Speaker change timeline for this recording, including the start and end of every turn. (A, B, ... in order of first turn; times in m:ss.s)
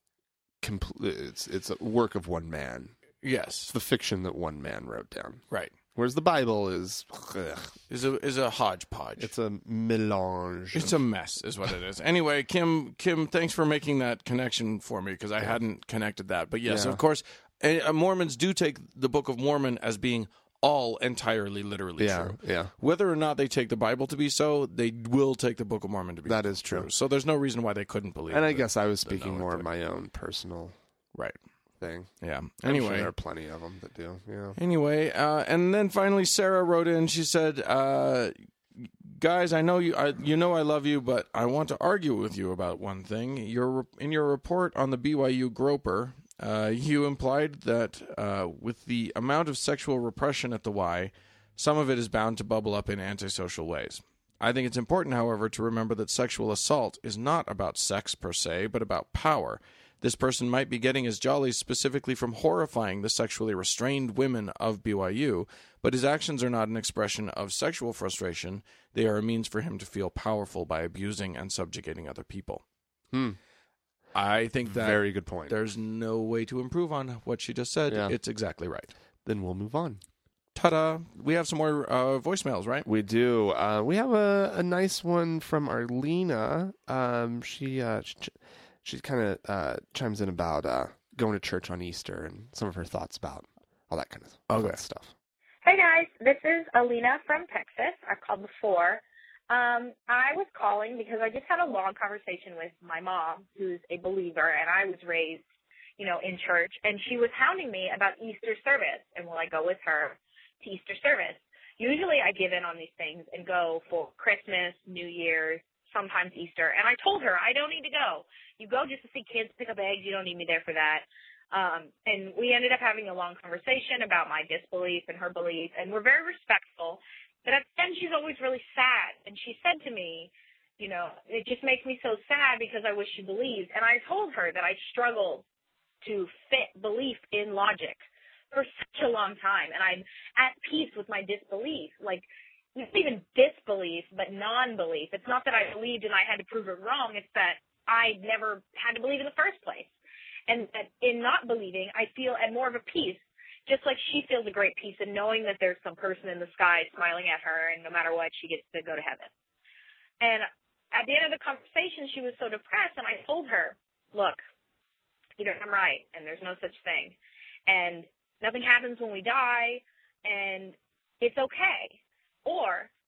0:00.6-0:03.0 A
0:03.2-0:03.7 B
0:03.7-0:05.4 A
0:06.0-0:07.8 A
0:07.9-0:09.3 B
0:09.2-0:11.0 A
0:10.7-0:29.7 B
0:16.7-0:17.0 A
0:22.0-0:22.7 A
0:26.3-0:26.9 A
0:28.3-0:30.7 A
0:31.8-0:32.1 A
0:32.2-0:33.1 B
0:32.6-0:34.6 A
0:34.6-1:12.6 B
1:13.1-1:13.4 A
1:14.2-1:18.9 B
1:14.7-1:15.5 A
1:17.9-1:18.2 A
1:19.2-1:20.0 A
1:20.6-1:22.9 B
1:22.8-1:35.1 A
1:34.5-1:34.8 B
1:35.6-1:45.4 C
1:46.0-2:15.4 C
2:16.0-2:29.9 C
2:30.5-2:39.3 C
2:40.2-2:44.4 C
2:45.4-2:47.2 C
2:47.7-2:52.9 C